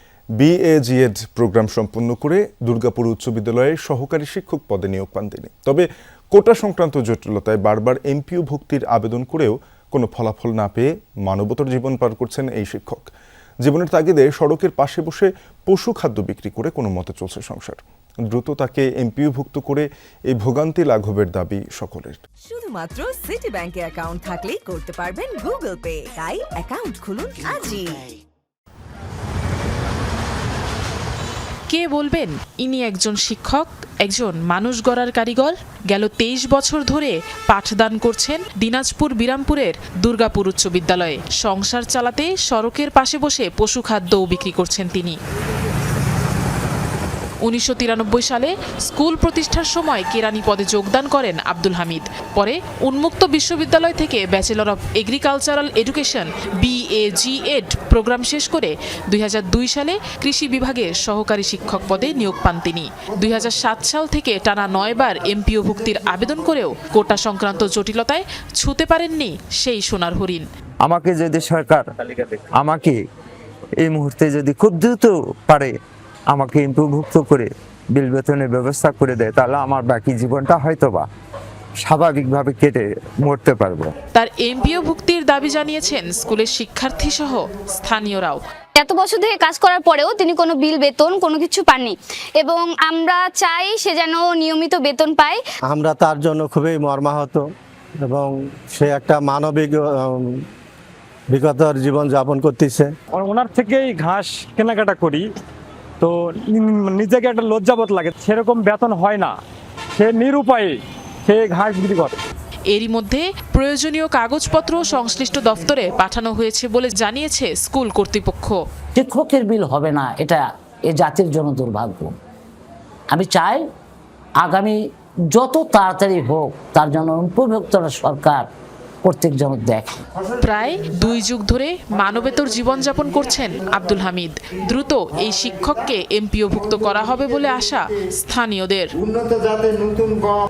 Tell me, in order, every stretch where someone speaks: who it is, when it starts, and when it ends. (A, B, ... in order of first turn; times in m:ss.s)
0:00.4-0:13.1 A
0:13.6-0:22.2 A
0:22.5-0:28.0 B
0:31.7-0:45.2 C
0:47.5-1:10.4 C
1:10.8-1:13.0 D
1:13.8-1:15.7 D
1:16.3-1:21.0 D
1:21.8-1:23.9 D
1:24.2-1:28.4 C
1:28.8-1:35.4 E
1:35.7-1:37.4 F
1:38.0-1:40.4 F
1:41.3-1:42.9 F
1:43.1-1:45.2 G
1:46.0-1:49.4 G
1:50.0-1:52.2 G
1:52.7-1:58.6 C
1:59.0-2:02.2 H
2:03.1-2:03.7 H
2:04.4-2:04.8 H
2:05.3-2:08.5 H
2:09.0-2:10.0 H
2:10.4-2:18.9 C